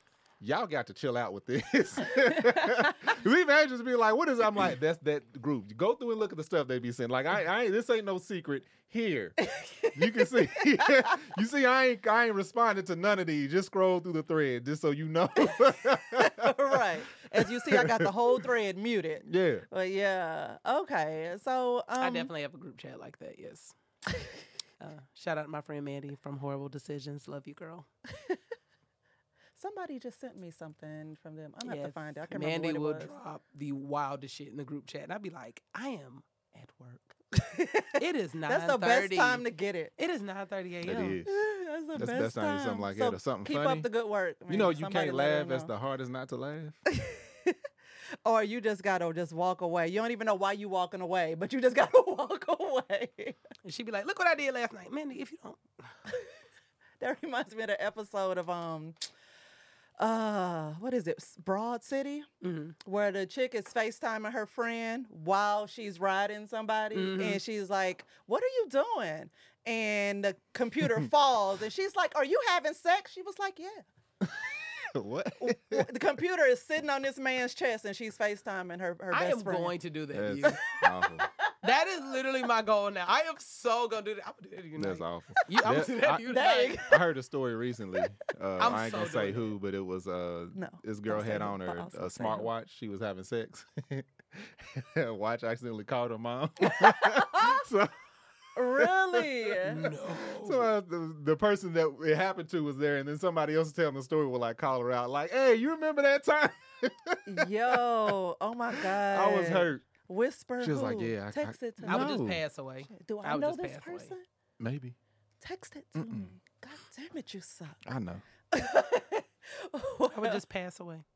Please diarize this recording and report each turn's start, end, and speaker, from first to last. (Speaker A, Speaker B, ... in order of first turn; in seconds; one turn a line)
Speaker A: 0.4-9.4
Speaker B: 2.3-2.9
Speaker B: 9.4-11.2
Speaker A: 9.9-18.4
Speaker B: 16.1-22.3
Speaker A: 19.2-19.7
Speaker C: 22.0-23.7
Speaker C: 24.8-27.9
Speaker B: 29.6-33.1
Speaker C: 31.6-37.1
Speaker B: 37.3-39.9
Speaker C: 38.0-39.5
Speaker C: 40.0-41.2
Speaker A: 40.8-43.9
Speaker B: 41.2-45.7
Speaker A: 44.5-46.8
Speaker B: 46.9-47.6
Speaker B: 48.2-53.4
Speaker C: 53.6-55.6
Speaker B: 57.0-59.0
Speaker B: 60.0-62.3
Speaker C: 62.4-62.8
Speaker B: 62.8-73.8
Speaker C: 66.9-67.4
Speaker A: 74.2-75.9
Speaker B: 75.4-79.7
Speaker C: 79.1-80.7
Speaker A: 80.1-81.3
Speaker B: 81.4-82.1
Speaker C: 81.6-86.9
Speaker A: 84.8-86.3
Speaker B: 85.4-85.6
Speaker B: 86.2-87.0
Speaker A: 86.8-97.9
Speaker C: 88.6-89.5
Speaker B: 90.5-92.5
Speaker B: 96.6-97.7
Speaker B: 98.5-99.9
Speaker A: 98.7-99.6
Speaker C: 99.6-100.7
Speaker A: 100.4-108.1
Speaker B: 107.3-112.2
Speaker A: 108.8-109.8
Speaker A: 110.6-112.4
Speaker C: 111.8-114.1
Speaker B: 112.9-114.2
Speaker A: 114.6-115.0
Speaker B: 115.4-117.8
Speaker A: 116.0-116.3
Speaker A: 117.8-118.2
Speaker B: 118.5-120.4
Speaker C: 120.0-121.0